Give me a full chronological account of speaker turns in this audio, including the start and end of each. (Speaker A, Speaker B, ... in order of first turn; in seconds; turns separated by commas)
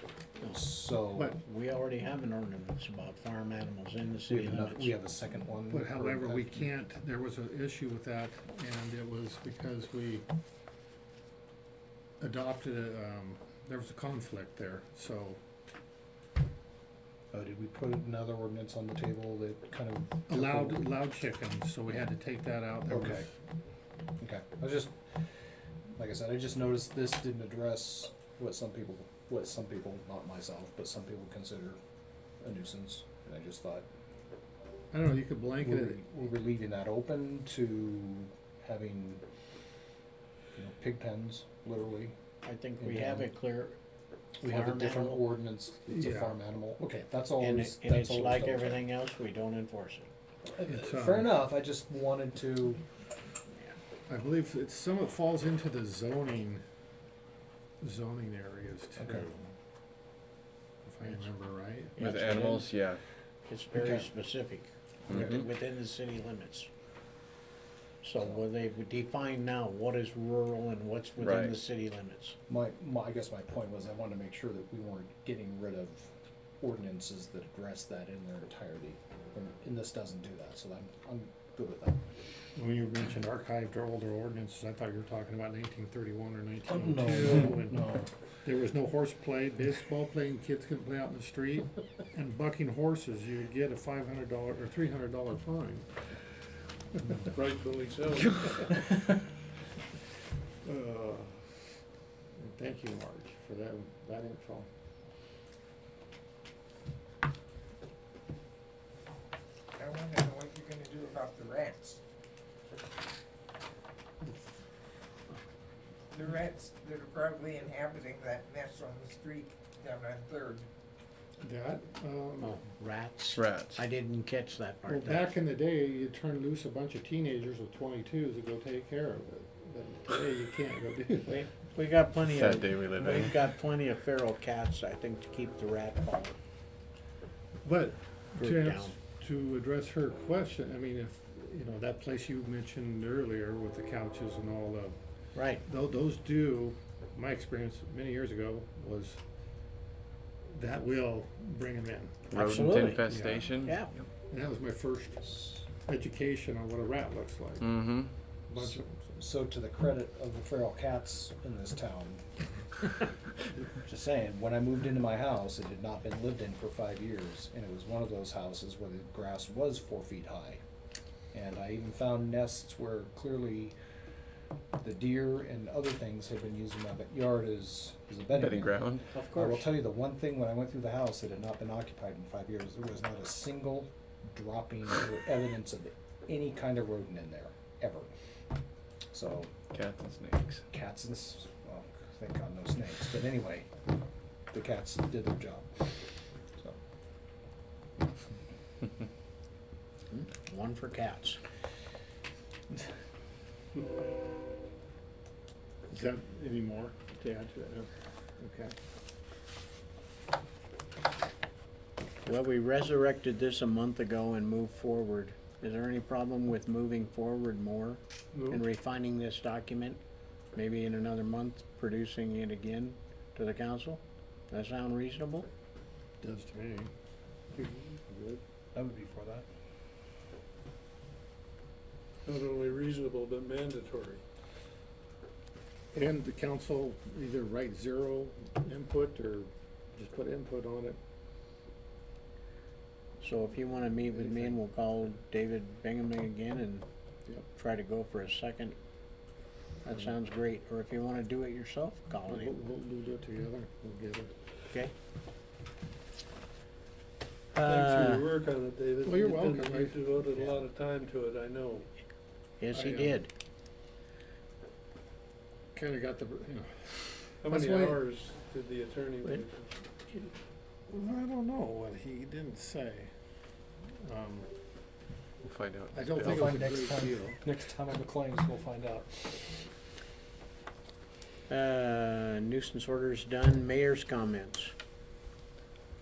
Speaker A: 0.5-1.4, Speaker B: 1.4-5.0, Speaker A: 4.3-6.7, Speaker C: 5.7-10.3, Speaker C: 12.2-15.4, Speaker A: 17.3-20.9, Speaker C: 20.3-23.3, Speaker A: 22.9-23.3, Speaker A: 24.2-25.3, Speaker A: 26.0-31.8, Speaker A: 32.4-33.9, Speaker C: 34.9-36.0, Speaker A: 35.6-39.2, Speaker A: 40.5-42.2, Speaker B: 42.4-43.8, Speaker A: 42.8-43.3, Speaker B: 44.4-45.2, Speaker A: 44.4-48.8, Speaker C: 45.9-46.4, Speaker B: 47.4-50.1, Speaker A: 50.5-52.8, Speaker C: 50.7-51.3, Speaker C: 54.1-56.6, Speaker C: 57.8-59.5, Speaker A: 59.0-59.3, Speaker C: 60.9-62.0, Speaker B: 62.0-62.7, Speaker D: 62.0-63.0, Speaker B: 63.5-66.7, Speaker A: 63.8-64.1, Speaker D: 65.1-65.5, Speaker A: 65.1-65.4, Speaker B: 68.0-72.4, Speaker D: 71.2-71.6, Speaker A: 72.5-82.0, Speaker C: 82.5-87.8, Speaker A: 86.7-88.1, Speaker C: 88.4-95.9, Speaker C: 96.9-97.2, Speaker E: 97.3-98.8, Speaker C: 100.6-101.8, Speaker C: 102.4-104.7, Speaker F: 109.8-112.0, Speaker C: 114.2-114.6, Speaker F: 116.1-120.7, Speaker C: 121.4-122.6, Speaker B: 122.4-125.3, Speaker D: 123.3-123.8, Speaker C: 124.9-131.4, Speaker B: 131.3-136.4, Speaker D: 132.2-133.4, Speaker C: 137.6-145.0, Speaker B: 138.4-138.9, Speaker B: 145.3-145.6, Speaker C: 145.7-149.2, Speaker C: 150.5-152.3, Speaker D: 152.3-154.1, Speaker B: 152.3-153.1, Speaker C: 153.0-153.7, Speaker B: 153.7-153.9, Speaker C: 154.3-155.3, Speaker C: 155.8-157.7, Speaker D: 157.6-158.2, Speaker C: 158.5-159.2, Speaker A: 158.6-162.2, Speaker A: 163.8-170.6, Speaker A: 171.3-173.8, Speaker A: 174.8-188.1, Speaker D: 178.3-179.1, Speaker B: 179.1-179.7, Speaker A: 189.1-189.5, Speaker D: 189.7-190.7, Speaker A: 190.7-193.7, Speaker A: 194.5-196.0, Speaker B: 200.1-201.4, Speaker C: 205.9-208.8, Speaker B: 212.2-220.0, Speaker E: 218.3-218.6, Speaker B: 220.5-225.5, Speaker C: 226.2-226.9, Speaker C: 227.5-228.4, Speaker A: 228.7-229.5, Speaker E: 232.3-234.2, Speaker C: 235.9-241.0, Speaker B: 243.2-246.9, Speaker C: 244.2-244.6, Speaker B: 247.5-248.8, Speaker B: 249.8-252.6, Speaker C: 252.3-254.3, Speaker E: 257.6-261.9, Speaker B: 257.6-258.3, Speaker C: 259.0-260.0, Speaker B: 262.6-263.3, Speaker C: 262.7-263.2, Speaker C: 265.8-268.0, Speaker E: 267.4-270.2, Speaker C: 270.9-273.1, Speaker C: 274.0-274.5, Speaker D: 275.4-276.5, Speaker C: 275.9-277.4, Speaker A: 276.2-279.5, Speaker B: 281.5-284.7